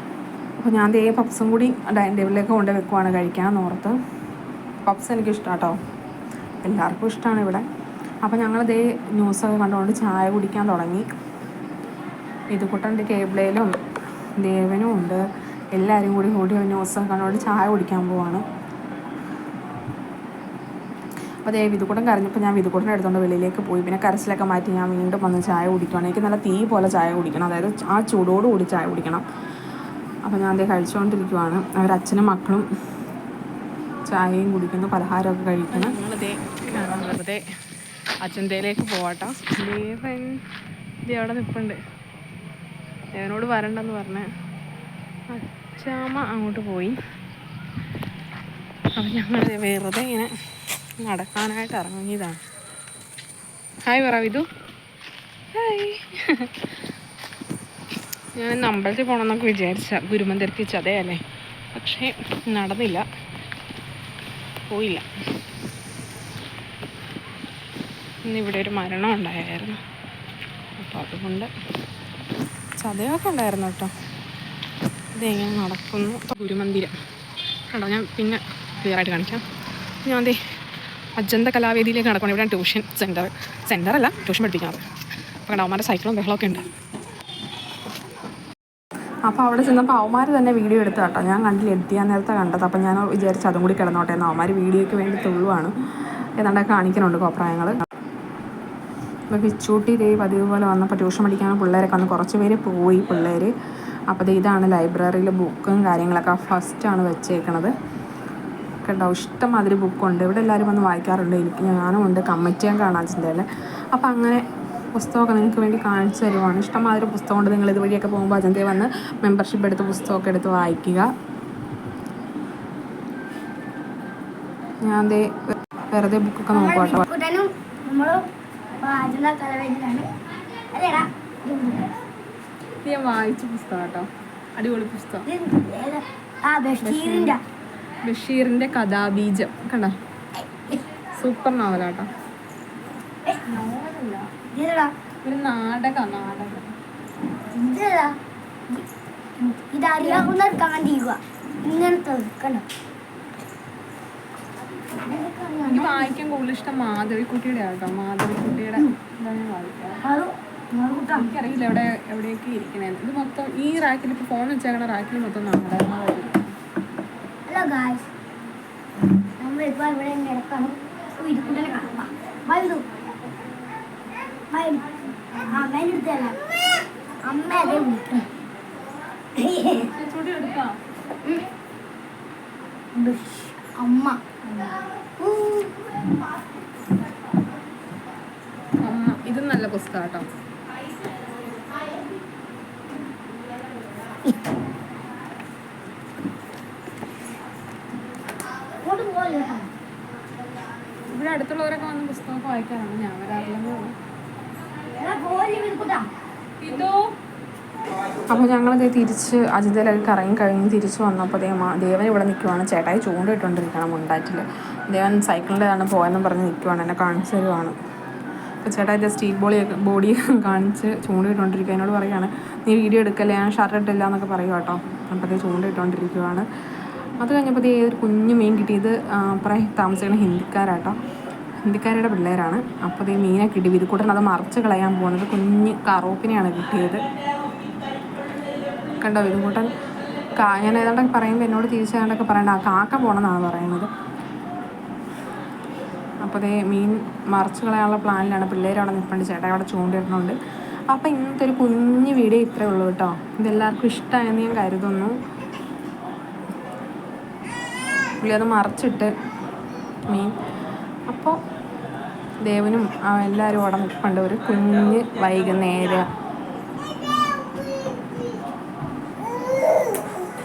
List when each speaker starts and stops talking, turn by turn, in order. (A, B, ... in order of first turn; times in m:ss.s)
0:00.6-0:04.0 A
0:04.8-0:05.8 A
0:06.6-0:07.6 A
0:08.2-0:11.0 A
0:12.5-0:13.8 A
0:14.4-0:15.2 A
0:15.7-0:18.4 A
0:21.4-0:29.2 A
0:30.2-0:32.7 A
0:34.1-0:37.4 A
0:38.2-0:40.4 A
0:41.0-0:41.8 A
0:43.1-0:44.3 A
0:45.3-0:47.0 A
0:49.0-0:50.3 A
0:51.0-0:52.4 A
0:53.8-0:54.4 A
0:55.5-0:56.5 A
0:58.4-1:01.2 A
1:01.7-1:03.0 A
1:04.7-1:05.0 A
1:08.2-1:09.8 A
1:10.8-1:11.5 A
1:12.8-1:13.9 A
1:15.2-1:16.9 A
1:17.7-1:19.4 A
1:20.0-1:20.4 A
1:21.2-1:24.8 A
1:25.5-1:26.7 A
1:29.2-1:35.7 A
1:36.4-1:37.8 A
1:39.3-1:43.5 A
1:44.1-1:47.7 A
1:48.8-1:54.4 A
1:54.9-2:01.1 A
2:04.8-2:07.0 A
2:06.5-2:08.2 B
2:08.8-2:10.1 B
2:10.7-2:11.9 B
2:12.8-2:15.3 A
2:15.2-2:17.4 B
2:16.8-2:17.3 A
2:18.1-2:20.0 A
2:21.2-2:22.1 A
2:23.4-2:24.3 A
2:24.5-2:24.9 B
2:25.2-2:26.6 A
2:27.5-2:28.2 B
2:29.4-2:32.6 B
2:35.0-2:36.1 B
2:35.7-2:40.0 A
2:40.0-2:41.3 B
2:41.1-2:46.5 A
2:47.5-2:48.1 B
2:49.4-2:52.8 B
2:54.5-2:56.4 B
2:57.2-2:58.2 B
2:59.4-2:59.9 B
2:59.9-3:00.7 A
3:02.9-3:06.0 B
3:08.8-3:10.3 A
3:18.8-3:19.7 B
3:21.1-3:23.9 A
3:24.9-3:26.1 B
3:26.6-3:26.9 A
3:28.3-3:37.8 A
3:38.6-3:46.5 A
3:47.2-3:51.0 A
3:51.6-3:57.0 A
3:59.0-3:59.7 A
4:00.4-4:03.9 A
4:06.2-4:10.4 A
4:10.9-4:15.2 A
4:18.2-4:19.1 A
4:20.1-4:20.3 A
4:21.1-4:21.4 A
4:22.4-4:26.1 A